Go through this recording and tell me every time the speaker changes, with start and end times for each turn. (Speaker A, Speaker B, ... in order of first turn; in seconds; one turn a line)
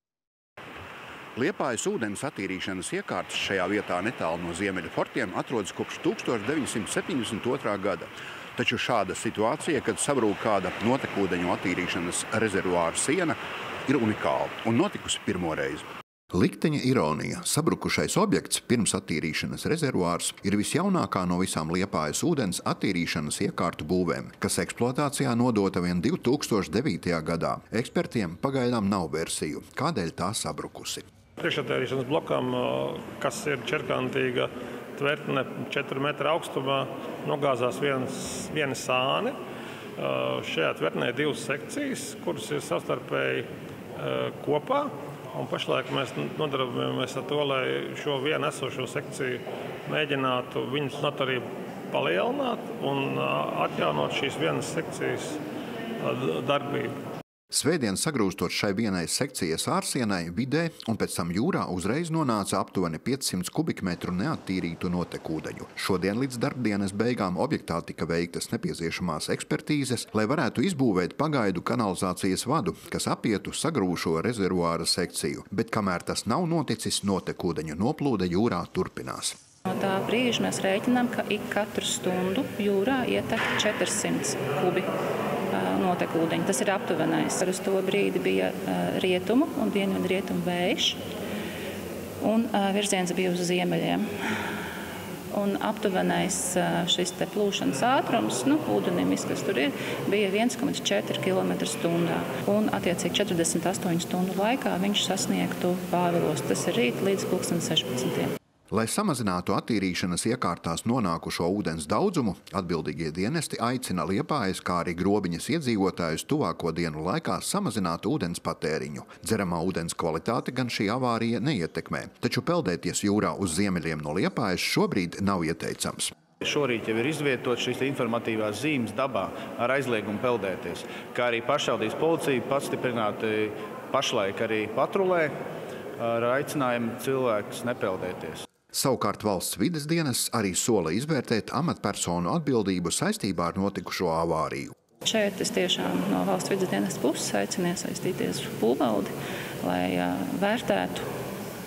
Speaker A: 1.4-31.0
Speaker B: 31.4-39.4
Speaker B: 40.0-55.4
Speaker B: 56.0-56.9
Speaker A: 57.5-79.4
Speaker C: 79.7-84.9
Speaker C: 85.5-91.0
Speaker C: 92.2-94.1
Speaker C: 95.3-108.3
Speaker A: 108.7-126.1
Speaker D: 126.4-135.3
Speaker D: 136.0-138.5
Speaker A: 138.7-144.7
Speaker C: 145.0-151.1